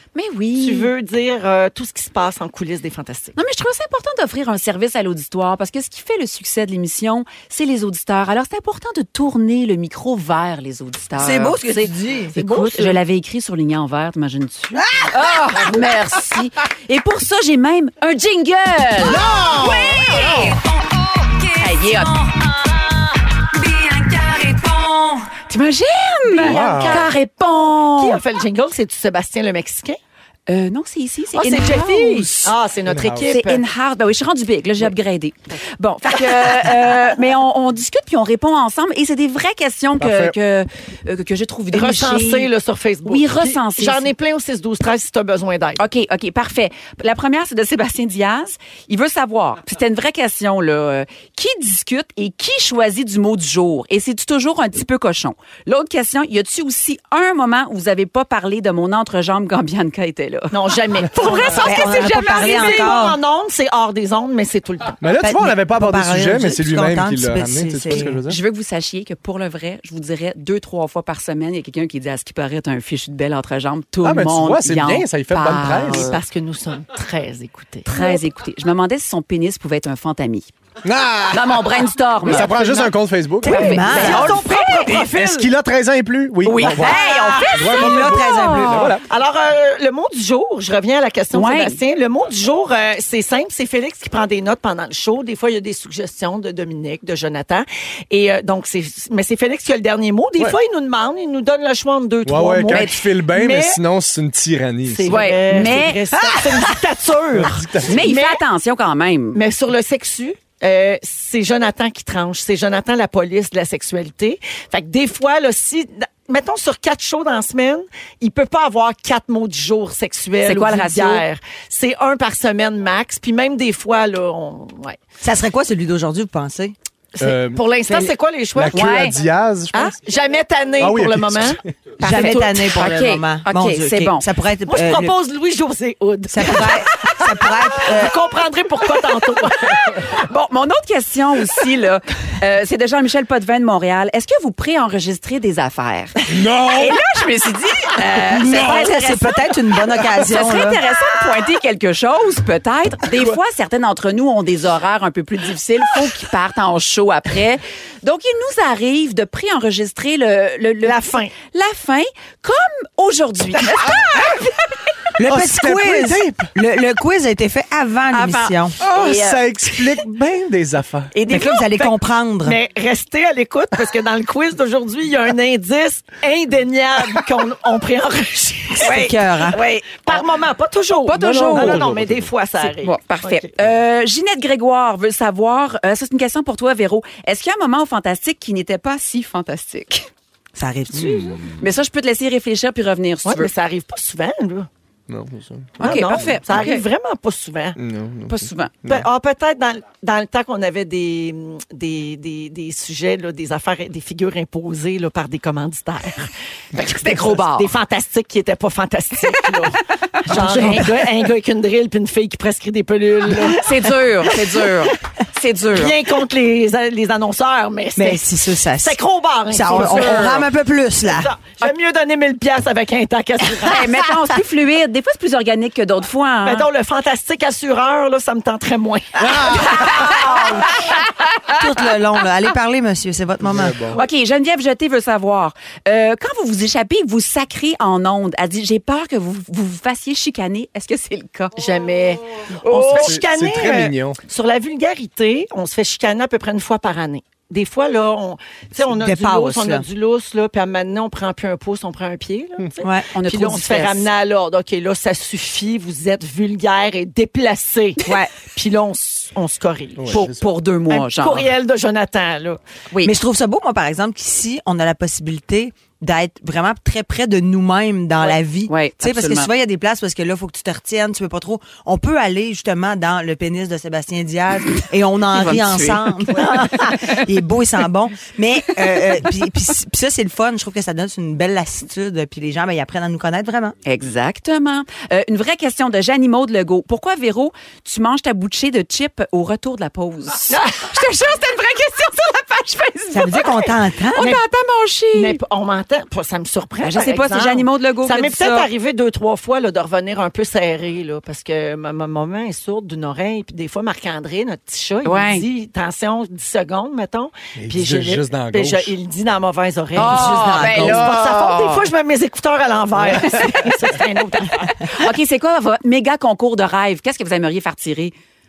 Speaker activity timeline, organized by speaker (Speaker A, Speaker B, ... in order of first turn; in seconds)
Speaker A: 0.1-0.9, 3.4-20.4, 21.6-22.2, 25.5-28.2, 30.5-32.5, 33.3-42.5, 43.0-44.1, 45.8-60.6, 61.1-62.8, 68.2-76.2, 77.8-80.5, 81.3-82.8, 83.4-85.0, 86.4-88.7, 91.3-91.8, 102.7-103.0, 105.0-106.0, 107.8-109.4, 120.4-121.2, 128.7-129.1, 132.0-134.2, 139.9-164.2, 168.1-170.0, 171.1-171.6, 179.6-179.9, 181.1-181.9, 182.6-190.1, 191.6-193.5, 195.8-196.8, 198.3-198.7, 206.9-207.7, 213.4-216.0, 219.7-220.0, 223.6-226.7, 229.6-230.8, 233.9-241.6, 242.8-243.1, 253.1-254.1, 260.1-261.5, 268.7-269.5, 275.3-276.5, 283.9-295.4, 296.8-298.7, 305.0-305.4, 309.9-311.8, 313.2-313.8, 314.9-318.1
Speaker B: 0.6-3.4, 12.3-13.0, 26.3-27.1, 27.9-30.0, 31.3-33.6, 41.7-45.8, 60.5-65.0, 75.9-78.2, 83.5-85.5, 86.6-87.5, 89.0-103.8, 104.9-108.4, 109.3-125.0, 127.1-129.1, 129.8-131.6, 134.7-137.2, 137.8-139.9, 160.8-161.3, 171.3-183.5, 193.2-194.7, 195.8-197.8, 198.8-206.3, 206.8-213.7, 215.8-218.2, 218.8-220.5, 221.1-223.9, 226.4-230.0, 241.6-260.2, 260.9-262.6, 290.5-290.8, 295.1-314.7
Speaker C: 11.2-12.3, 19.2-20.4, 61.5-63.2, 65.2-68.2, 83.4-84.4, 86.6-88.9, 106.1-106.7, 125.2-126.7, 132.0-135.1, 136.3-138.1, 148.2-150.8, 165.2-168.8, 171.3-172.6, 178.7-179.6, 190.5-191.4, 210.3-210.9, 217.9-221.3, 230.0-230.4, 231.5-233.8, 248.8-249.8, 252.8-253.1, 258.0-258.3, 263.0-283.7, 293.1-294.4, 310.0-311.1
Speaker D: 19.0-20.5, 26.4-27.1, 32.8-33.4, 40.0-40.4, 65.0-68.4, 74.0-76.2, 80.8-89.1, 102.2-105.3, 107.3-108.0, 127.2-130.2, 130.8-131.7, 146.3-147.0, 148.3-148.8, 165.2-166.5, 168.8-171.2, 181.3-182.3, 190.9-191.5, 195.1-196.7, 197.8-199.1, 229.2-230.1, 233.4-234.0, 242.7-244.2, 259.9-260.4, 307.6-309.0, 310.6-311.8, 313.0-313.5
Speaker E: 19.9-25.3